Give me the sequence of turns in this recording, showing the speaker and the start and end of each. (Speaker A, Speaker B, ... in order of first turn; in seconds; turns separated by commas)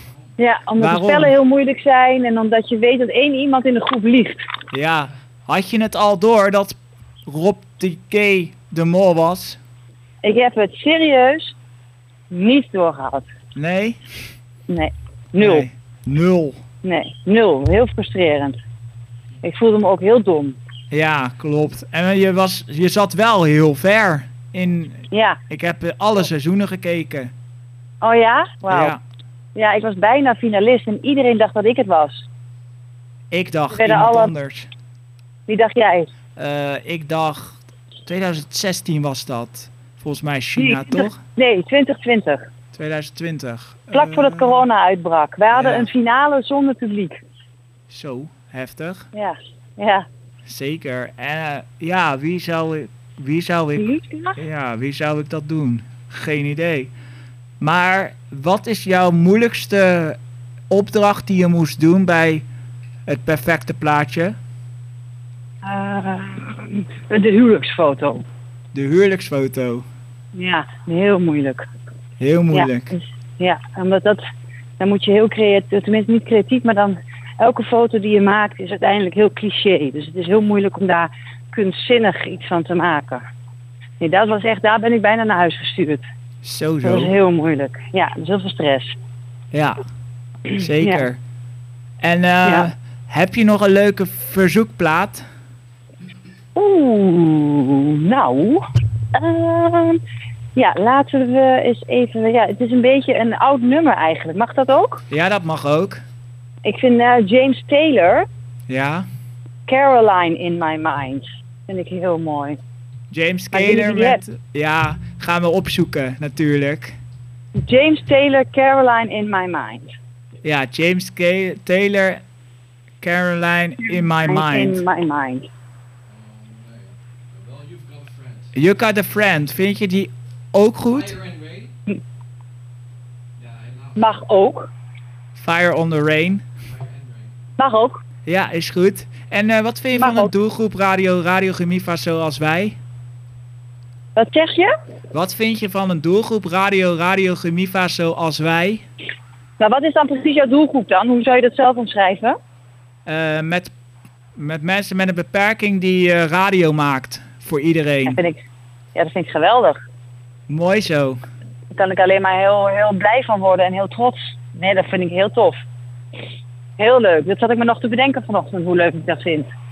Speaker A: 0.4-4.5, Speaker B: 0.8-1.3, Speaker B: 4.7-9.6, Speaker A: 10.2-11.5, Speaker A: 12.3-13.2, Speaker B: 13.5-14.0, Speaker A: 14.7-15.7, Speaker B: 15.4-16.6, Speaker A: 16.8-18.6, Speaker A: 19.4-20.6, Speaker B: 20.9-27.3, Speaker A: 25.1-25.4, Speaker A: 28.0-28.9, Speaker B: 28.7-29.0, Speaker A: 29.5-32.3, Speaker B: 33.3-34.7, Speaker A: 33.7-34.3, Speaker A: 35.5-36.1, Speaker B: 36.4-41.2, Speaker A: 40.6-42.4, Speaker B: 42.7-44.6, Speaker A: 43.9-47.2, Speaker B: 45.5-45.9, Speaker B: 47.9-49.0, Speaker A: 49.1-50.0, Speaker B: 50.5-56.9, Speaker A: 53.8-54.4, Speaker B: 57.6-60.2, Speaker B: 60.7-62.4, Speaker B: 63.1-64.3, Speaker A: 65.6-68.2, Speaker B: 68.7-69.8, Speaker A: 70.3-71.7, Speaker B: 72.2-73.0, Speaker A: 72.5-74.2, Speaker A: 74.8-83.2, Speaker A: 84.0-86.0, Speaker B: 86.4-87.2, Speaker A: 86.8-89.0, Speaker B: 89.5-89.8, Speaker A: 90.5-91.0, Speaker B: 90.5-91.2, Speaker B: 92.0-95.2, Speaker A: 96.5-98.6, Speaker A: 99.1-100.0, Speaker A: 100.5-105.0, Speaker B: 105.1-106.0, Speaker A: 106.6-108.2, Speaker B: 108.7-109.0, Speaker A: 109.7-112.6, Speaker B: 113.1-117.0, Speaker A: 113.5-114.2, Speaker A: 117.6-119.9, Speaker B: 120.4-122.2, Speaker B: 123.0-124.8, Speaker A: 123.9-125.5, Speaker C: 126.4-126.8, Speaker C: 127.4-128.3, Speaker B: 128.5-131.2, Speaker C: 131.2-131.7, Speaker A: 133.9-134.7, Speaker B: 135.3-136.4, Speaker A: 137.6-138.0, Speaker B: 138.2-142.8, Speaker A: 139.9-140.3, Speaker A: 144.1-144.7, Speaker B: 145.1-148.8, Speaker A: 149.6-152.3, Speaker B: 153.1-153.7, Speaker B: 154.3-158.2, Speaker A: 158.1-158.4, Speaker A: 158.9-159.8, Speaker B: 160.5-161.2, Speaker A: 161.7-165.6, Speaker A: 166.8-169.5